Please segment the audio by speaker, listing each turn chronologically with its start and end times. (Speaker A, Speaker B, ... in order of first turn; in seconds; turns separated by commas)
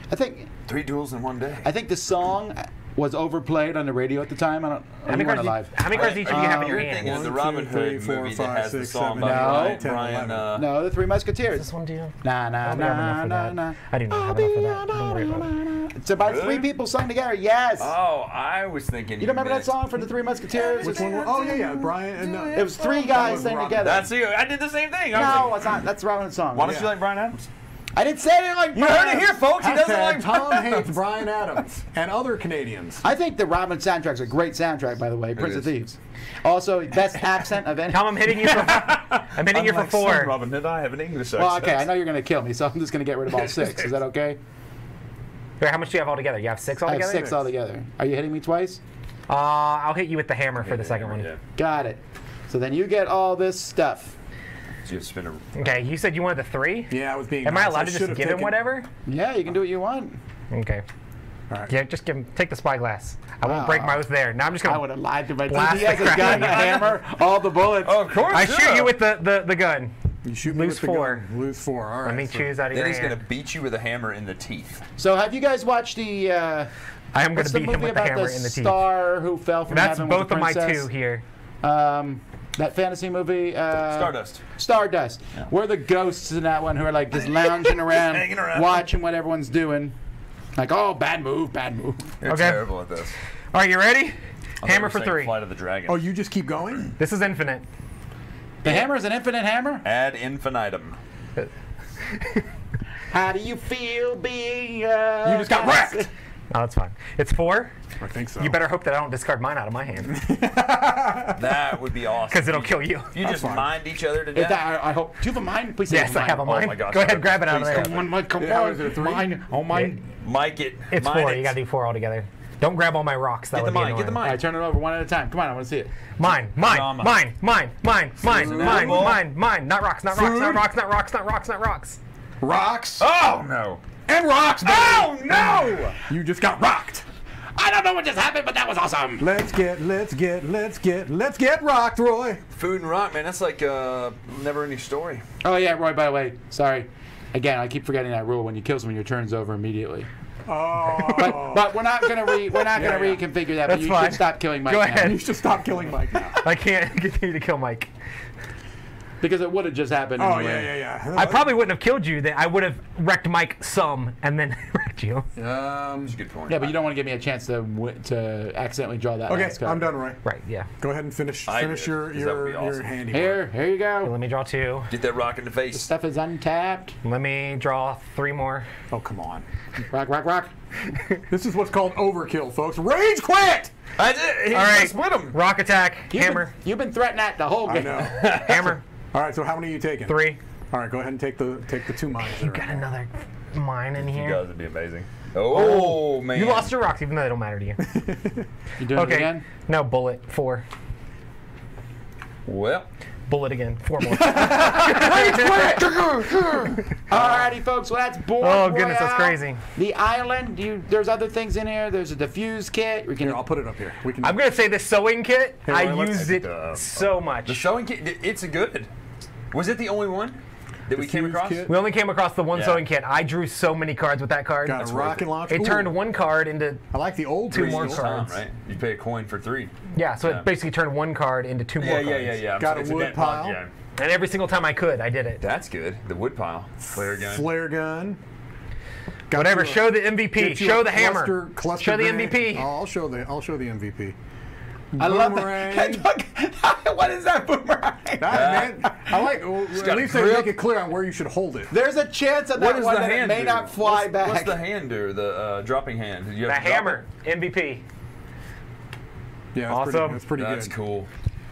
Speaker A: 0.1-0.5, Speaker B: 0.7-1.7, Speaker A: 1.6-6.8, Speaker C: 5.1-7.2, Speaker B: 5.9-10.7, Speaker D: 7.0-10.5, Speaker A: 9.2-9.8, Speaker A: 10.6-11.7, Speaker C: 11.6-15.5, Speaker A: 12.2-17.9, Speaker B: 16.2-16.7, Speaker B: 17.8-19.8, Speaker A: 19.2-21.3, Speaker B: 20.5-25.9, Speaker D: 20.8-24.1, Speaker A: 22.5-24.1, Speaker A: 25.1-26.9, Speaker B: 26.5-27.5, Speaker D: 26.6-26.9, Speaker A: 27.9-29.4, Speaker B: 28.7-31.1, Speaker D: 29.6-33.0, Speaker A: 33.0-38.2, Speaker B: 35.4-35.7, Speaker C: 37.9-40.3, Speaker B: 38.5-41.9, Speaker A: 41.4-44.4, Speaker B: 43.3-44.0, Speaker C: 45.6-47.5, Speaker A: 46.9-48.8, Speaker D: 47.1-47.4, Speaker C: 49.3-51.3, Speaker B: 50.6-51.4, Speaker A: 51.6-54.1, Speaker B: 54.9-55.6, Speaker C: 55.6-58.9, Speaker D: 56.9-58.6, Speaker A: 59.1-60.2, Speaker C: 60.5-60.8, Speaker C: 61.7-64.9, Speaker A: 63.5-64.0, Speaker A: 64.6-68.1, Speaker C: 65.5-66.9, Speaker B: 65.6-67.0, Speaker B: 67.8-68.9, Speaker C: 68.3-71.2, Speaker D: 70.2-72.6, Speaker C: 72.0-73.2, Speaker B: 72.7-74.8, Speaker A: 75.0-76.7, Speaker C: 77.1-78.8, Speaker A: 77.3-80.9, Speaker C: 79.7-81.2, Speaker A: 81.6-90.0, Speaker B: 83.8-84.4, Speaker B: 87.2-88.9, Speaker A: 90.6-92.1, Speaker B: 92.2-93.2, Speaker C: 92.3-92.6, Speaker C: 93.5-95.3, Speaker B: 94.6-96.0, Speaker D: 95.9-96.9, Speaker C: 97.0-97.6, Speaker A: 98.6-99.8, Speaker B: 99.8-101.0, Speaker A: 103.1-106.1, Speaker D: 105.2-106.1, Speaker C: 106.5-107.7, Speaker D: 108.0-108.6, Speaker C: 108.4-110.2, Speaker D: 110.1-111.6, Speaker B: 111.3-114.7, Speaker C: 112.3-113.2, Speaker D: 113.2-113.7, Speaker A: 114.3-116.6, Speaker C: 115.9-117.9, Speaker B: 116.4-118.1, Speaker A: 117.7-120.0, Speaker D: 118.4-119.3, Speaker B: 120.2-121.5, Speaker C: 120.9-124.2, Speaker B: 123.5-124.4, Speaker A: 124.2-125.9, Speaker C: 126.2-132.0, Speaker B: 126.6-127.3, Speaker B: 128.2-129.2, Speaker D: 128.3-129.1, Speaker B: 130.2-130.6, Speaker D: 132.4-133.1, Speaker B: 133.0-133.8, Speaker D: 134.1-137.1, Speaker B: 134.6-136.0, Speaker A: 137.6-139.3, Speaker D: 139.2-142.4, Speaker B: 142.5-145.2, Speaker A: 145.4-150.1, Speaker D: 150.5-151.8, Speaker A: 151.0-155.2, Speaker D: 152.7-153.2, Speaker C: 153.6-155.3, Speaker D: 155.0-156.5, Speaker C: 156.3-157.9, Speaker A: 159.2-160.8, Speaker D: 160.2-161.5, Speaker C: 161.1-165.3, Speaker D: 165.4-166.2, Speaker B: 166.1-166.8, Speaker A: 166.5-169.9, Speaker D: 169.3-170.2, Speaker C: 170.2-170.7, Speaker D: 170.8-173.4, Speaker B: 171.5-172.9, Speaker A: 173.1-174.1, Speaker C: 174.0-174.9, Speaker B: 174.9-175.9, Speaker A: 175.7-176.9, Speaker C: 177.0-178.7, Speaker D: 178.9-179.5, Speaker A: 179.8-180.5, Speaker D: 181.3-183.7, Speaker B: 184.0-185.4, Speaker C: 184.5-186.5, Speaker A: 186.1-188.1, Speaker D: 187.7-192.8, Speaker B: 187.9-188.8, Speaker C: 188.3-188.8, Speaker C: 190.1-190.4, Speaker C: 192.2-194.4, Speaker B: 194.0-196.7, Speaker C: 195.5-197.8, Speaker D: 197.8-198.5, Speaker A: 198.8-199.4, Speaker C: 198.9-200.6, Speaker B: 202.5-202.9, Speaker C: 203.3-205.8, Speaker D: 204.1-206.8, Speaker A: 204.3-206.3, Speaker B: 204.9-207.6, Speaker A: 207.1-213.4, Speaker C: 208.4-209.6, Speaker D: 213.2-214.4, Speaker C: 214.2-217.7, Speaker B: 215.7-218.9, Speaker B: 219.5-221.7, Speaker D: 220.9-221.8, Speaker C: 221.7-226.8, Speaker B: 222.5-222.8, Speaker D: 224.6-226.0, Speaker D: 226.9-228.0, Speaker C: 227.5-228.4, Speaker B: 227.5-230.5, Speaker C: 229.9-232.4, Speaker B: 231.8-233.7, Speaker D: 232.6-233.6, Speaker C: 234.0-235.4, Speaker B: 235.4-237.5, Speaker D: 237.0-238.2, Speaker D: 239.3-244.2, Speaker C: 239.3-242.7, Speaker D: 244.9-246.1, Speaker A: 245.0-248.9, Speaker D: 248.2-251.7, Speaker B: 248.3-249.0, Speaker B: 249.7-250.6, Speaker A: 251.7-254.6, Speaker B: 252.6-257.0, Speaker C: 256.5-257.8, Speaker D: 259.5-260.7, Speaker C: 259.7-260.2, Speaker B: 260.4-261.1